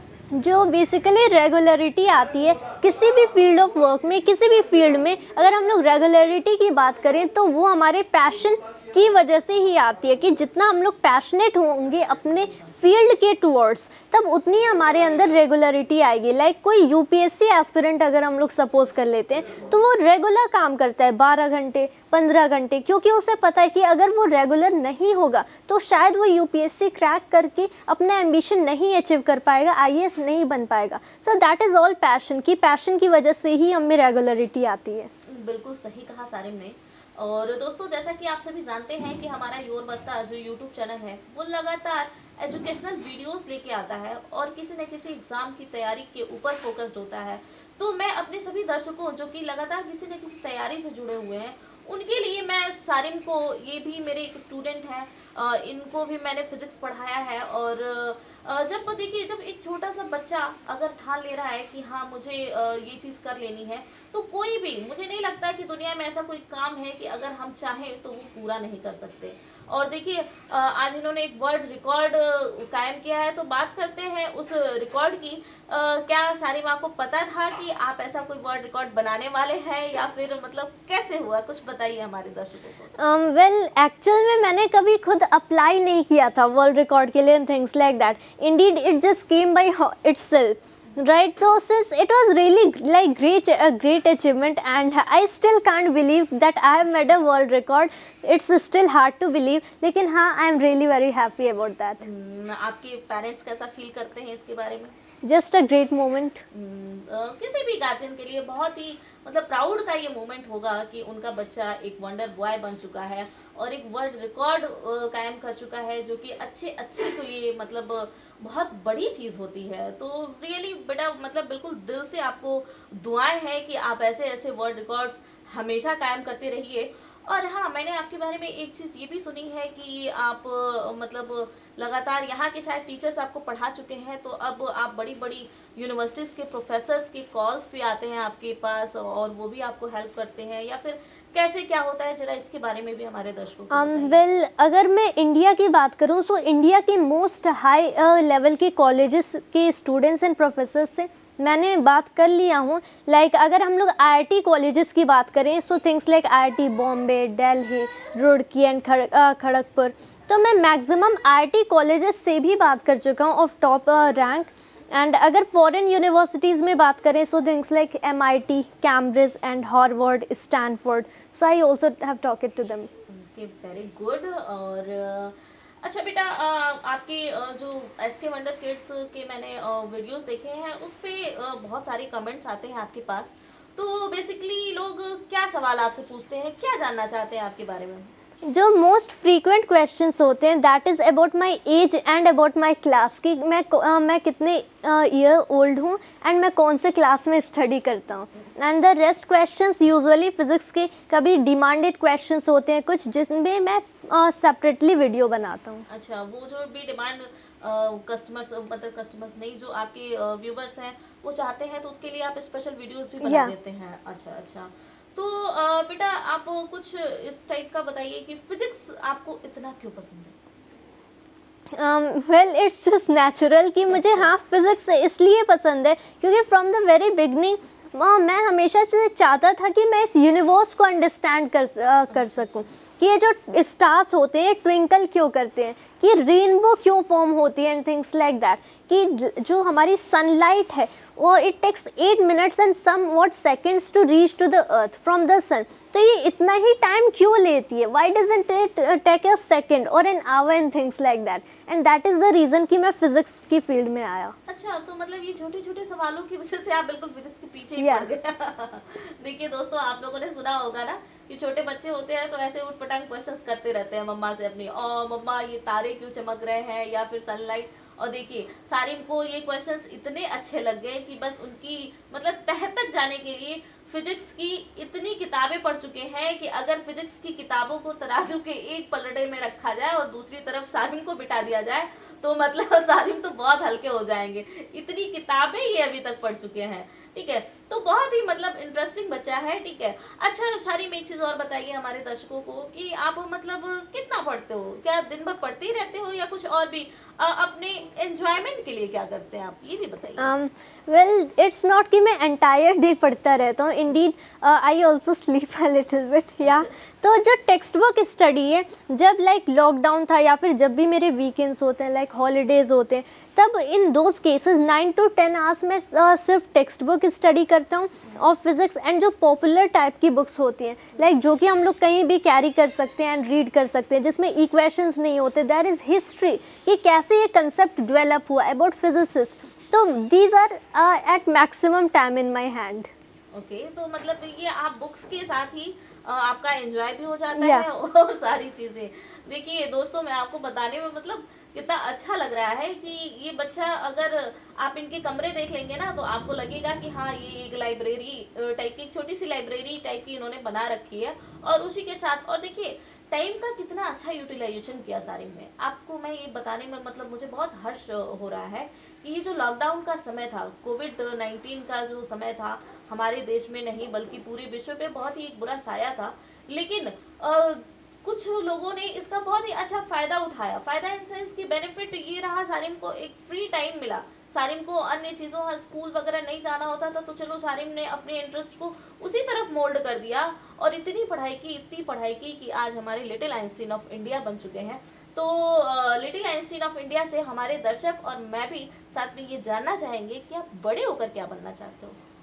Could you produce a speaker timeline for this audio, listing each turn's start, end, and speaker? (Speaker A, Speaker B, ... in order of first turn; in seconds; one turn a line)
Speaker A: 0.3-35.1
Speaker B: 35.3-82.9
Speaker A: 83.0-102.0
Speaker B: 102.0-104.9
Speaker A: 105.2-106.4
Speaker B: 106.5-144.2
Speaker A: 143.7-172.9
Speaker B: 173.1-188.1
Speaker A: 188.4-205.8
Speaker B: 205.9-220.3
Speaker A: 213.2-213.5
Speaker A: 221.7-254.3
Speaker B: 223.9-224.3
Speaker B: 254.5-300.3
Speaker A: 257.8-258.1
Speaker A: 300.2-332.9
Speaker B: 333.3-391.9
Speaker A: 337.3-337.7